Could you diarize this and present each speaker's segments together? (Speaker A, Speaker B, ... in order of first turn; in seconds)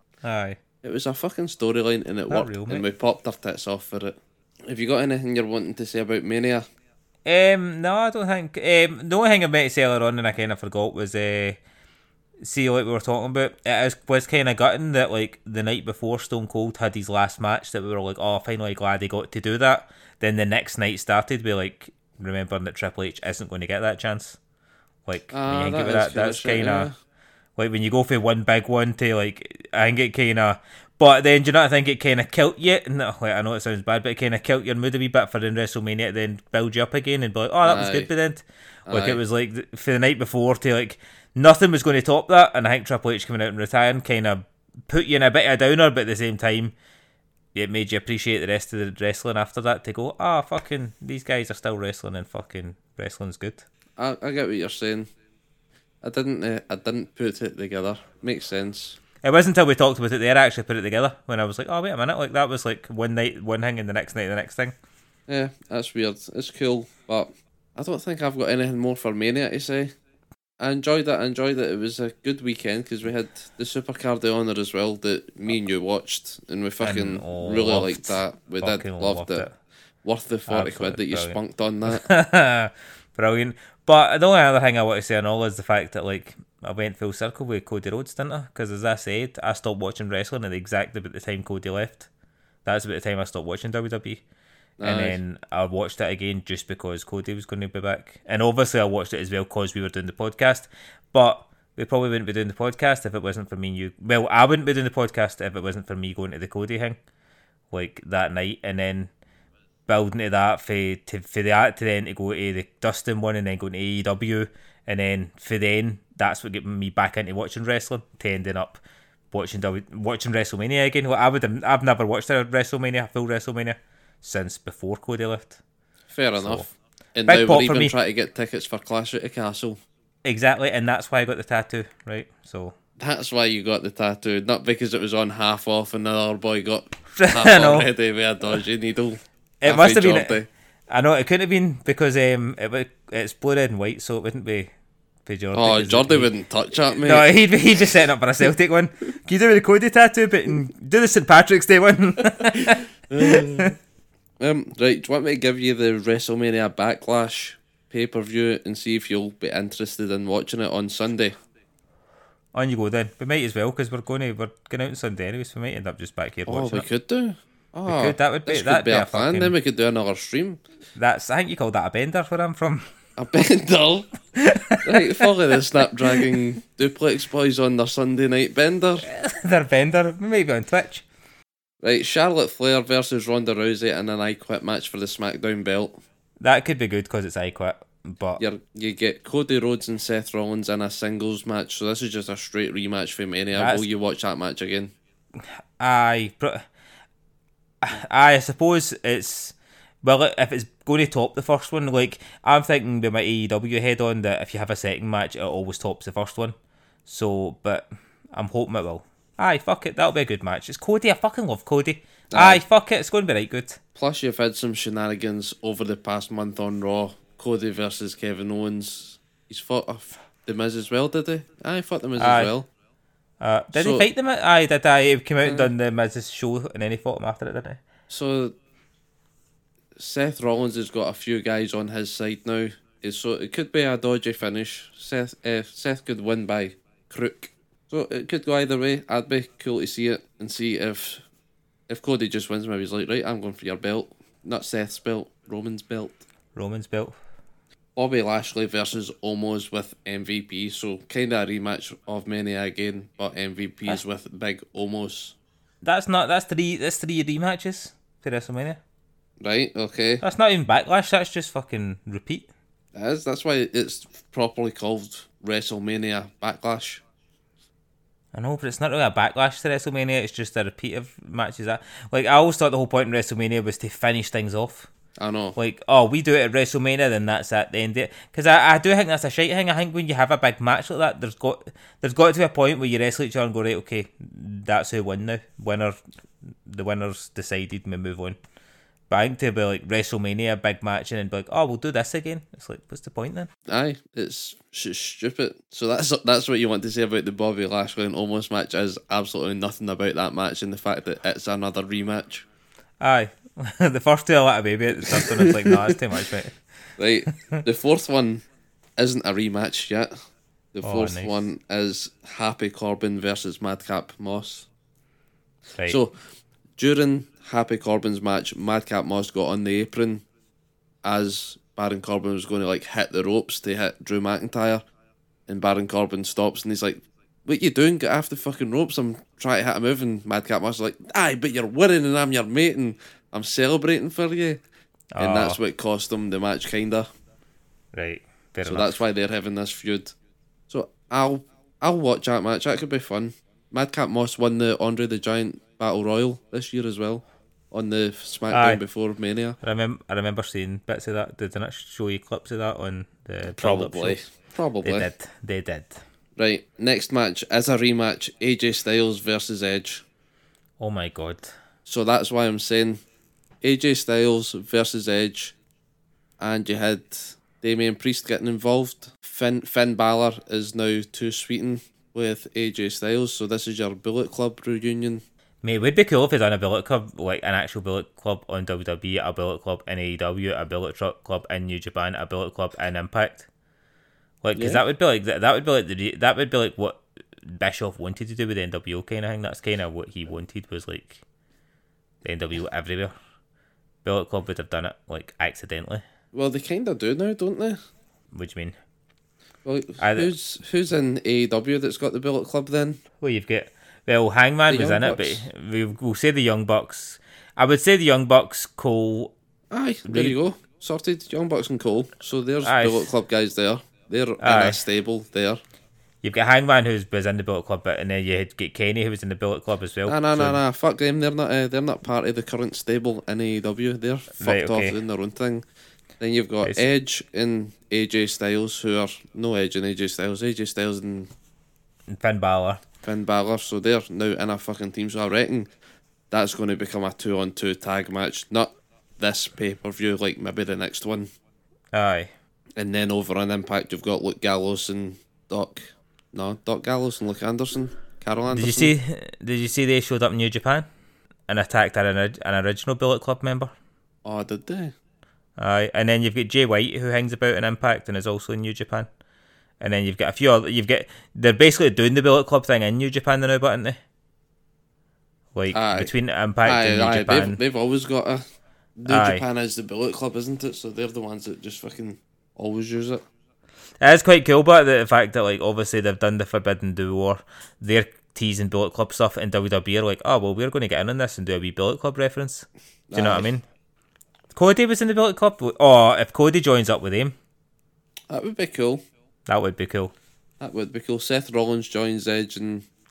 Speaker A: 0.2-0.6, 2.3-2.9, 7.2-11.6, 12.4-24.4, 25.1-26.9, 27.6-46.7, 47.5-53.6, 59.2-64.7, 76.8-79.5, 80.5-92.1, 92.7-94.2, 94.8-107.0, 107.7-109.1, 109.9-125.6, 126.4-126.7, 127.3-127.9, 130.2-132.8, 137.2-137.9, 139.6-144.7, 145.3-146.3, 147.0-153.7, 162.5-166.9, 167.9-169.6, 171.0-172.9, 174.4-176.3, 179.1-181.0, 186.4-188.4, 193.5-193.9, 195.4-196.7, 197.8-206.6, 207.1-213.8, 222.2-222.5, 223.4-227.8, 246.6-247.1, 255.8-258.8, 260.2-262.5, 268.3-274.9, 275.6-286.0, 286.7-288.4, 289.1-293.5, 303.0-306.6, 310.8-311.5, 335.1-335.6, 337.9-339.0, 348.5-348.8, 349.6-354.2, 354.8-356.0, 360.8-361.5, 375.6-383.5, 384.4-391.2, 392.2-393.1, 394.0-396.0, 398.3-398.8, 400.0-400.3, 403.2-409.3, 410.1-410.4, 412.6-413.1, 414.4-414.8, 416.2-420.6, 424.4-425.0, 432.1-432.8, 441.9-442.3, 448.5-450.9, 451.5-453.7, 455.6-459.1, 459.8-464.0, 465.6-467.6, 469.1-469.4, 474.0-483.6, 484.5-487.4, 489.5-490.1
Speaker B: 0.8-6.7, 25.3-26.9, 37.6-38.1, 38.9-39.2, 54.0-55.1, 56.0-59.0, 65.3-69.9, 70.6-79.5, 80.0-82.1, 94.8-95.2, 126.1-129.8, 133.0-140.5, 145.5-147.3, 153.1-153.8, 154.4-161.4, 166.5-170.6, 173.2-174.1, 174.8-179.1, 181.8-186.0, 188.4-194.9, 212.3-212.6, 214.0-222.7, 223.7-224.1, 225.4-225.7, 228.1-228.5, 230.0-241.2, 241.9-246.2, 248.0-255.3, 259.4-260.2, 262.9-267.0, 275.2-275.6, 293.7-302.4, 305.1-305.9, 307.0-308.4, 309.0-310.1, 310.8-314.7, 315.9-316.1, 316.8-320.2, 321.0-324.8, 325.5-334.6, 335.2-337.1, 338.6-340.1, 340.7-349.6, 353.6-355.1, 356.4-360.0, 361.9-363.0, 363.6-365.6, 366.4-375.2, 384.6-384.8, 396.3-397.8, 399.6-403.0, 404.7-405.4, 409.7-415.6, 420.1-425.6, 426.2-431.3, 433.0-435.7, 436.3-441.3, 442.8-448.9, 454.2-454.9, 465.7-466.1, 466.6-468.4, 469.0-473.2, 483.1-483.5, 488.3-489.0, 490.6-492.9